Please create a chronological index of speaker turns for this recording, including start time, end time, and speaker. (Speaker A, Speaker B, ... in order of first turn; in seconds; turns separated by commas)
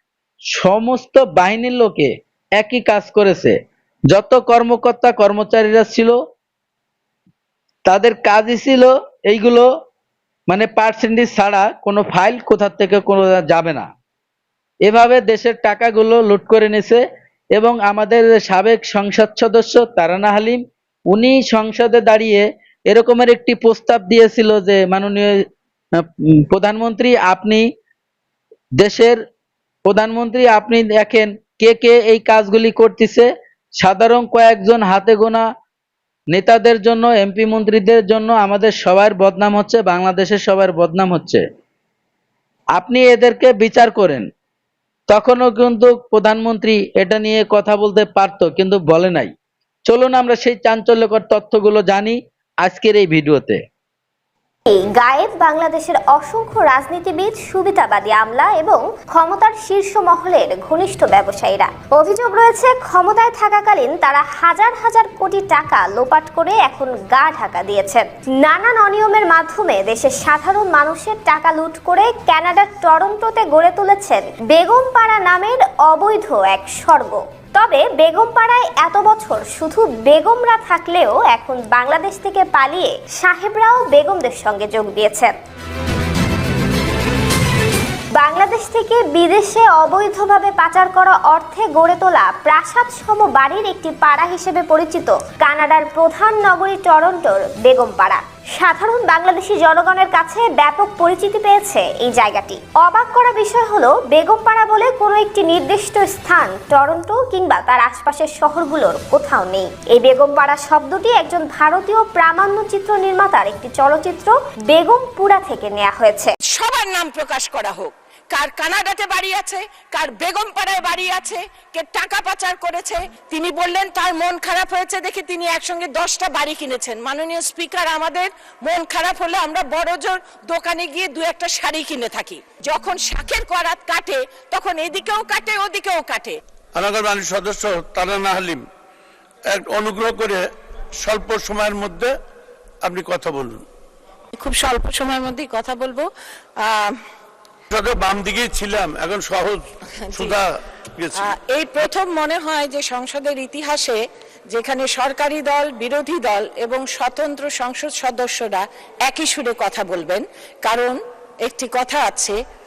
Speaker A: 0.5-3.5, Speaker A: 4.1-6.2, Speaker A: 7.8-9.7, Speaker A: 10.5-13.9, Speaker A: 14.8-17.0, Speaker A: 17.5-25.4, Speaker A: 26.0-27.6, Speaker A: 28.8-29.2, Speaker A: 29.9-35.4, Speaker A: 36.3-41.4, Speaker A: 42.8-44.2, Speaker A: 45.1-49.3, Speaker A: 49.9-53.6, Speaker B: 54.7-85.3, Speaker B: 88.1-116.3, Speaker C: 116.5-136.4, Speaker D: 136.7-138.6, Speaker D: 139.4-142.2, Speaker D: 142.8-143.6, Speaker C: 144.3-146.1, Speaker C: 146.6-146.9, Speaker D: 147.7-150.4, Speaker C: 150.1-150.4, Speaker D: 151.0-151.3, Speaker C: 151.1-162.3